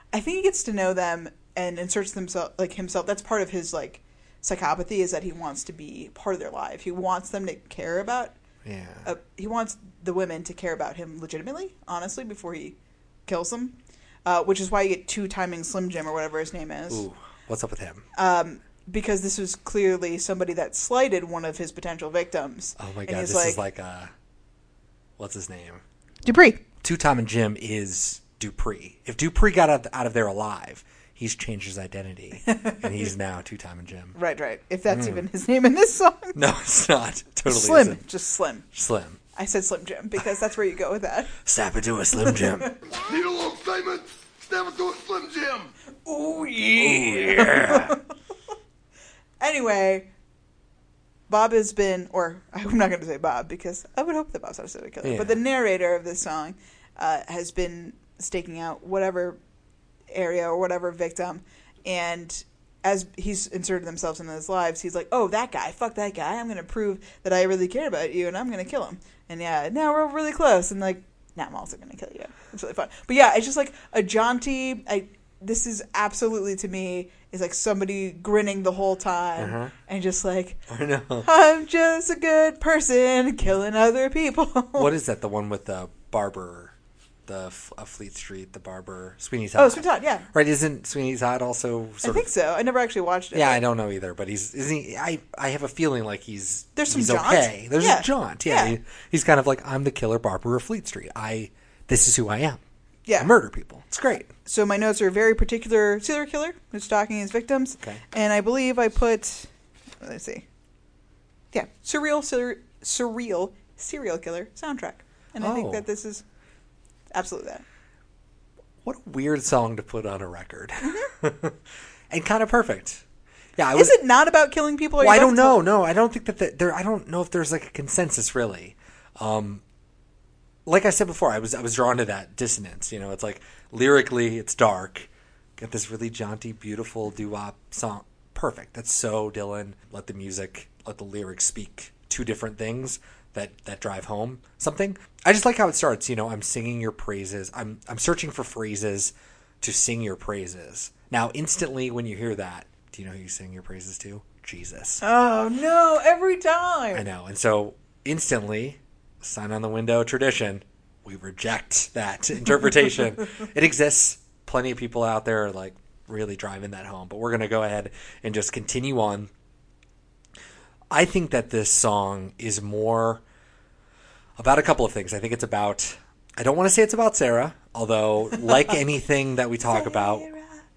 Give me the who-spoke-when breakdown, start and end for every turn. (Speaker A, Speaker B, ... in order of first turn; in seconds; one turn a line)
Speaker A: 0.1-8.3
Speaker B: 8.6-9.1
Speaker A: 9.0-17.0
Speaker B: 16.9-18.1
Speaker A: 18.1-23.6
Speaker B: 22.8-24.1
Speaker B: 25.2-25.8
Speaker A: 26.2-26.6
Speaker B: 26.8-34.1
Speaker A: 32.4-32.9
Speaker A: 34.1-36.4
Speaker B: 34.9-35.2
Speaker B: 36.3-38.0
Speaker A: 37.5-38.7
Speaker B: 38.7-39.2
Speaker A: 39.3-41.3
Speaker B: 41.4-42.7
Speaker A: 42.2-42.9
Speaker C: 43.1-45.7
Speaker A: 46.0-48.0
Speaker B: 46.8-48.0
Speaker A: 49.4-50.1
Speaker A: 51.3-59.4
Speaker B: 55.0-55.4
Speaker A: 60.1-80.6
Speaker B: 79.4-79.7
Speaker B: 80.7-81.3
Speaker A: 81.2-84.9
Speaker B: 84.8-86.7
Speaker B: 87.2-92.3
Speaker A: 89.5-90.3
Speaker A: 92.0-93.6
Speaker B: 93.3-102.6
Speaker A: 96.7-98.8
Speaker A: 103.1-103.3
Speaker B: 103.2-104.3
Speaker A: 104.3-110.5
Speaker A: 111.5-116.2
Speaker B: 115.4-115.8
Speaker A: 117.1-117.6
Speaker B: 118.8-121.6
Speaker A: 120.8-121.1
Speaker B: 122.1-123.0
Speaker B: 123.5-124.0
Speaker A: 123.7-125.6
Speaker B: 125.0-129.6
Speaker B: 130.7-155.0
Speaker A: 155.0-157.0
Speaker B: 156.9-169.3
Speaker B: 170.9-173.2
Speaker B: 174.4-180.3
Speaker A: 179.7-180.6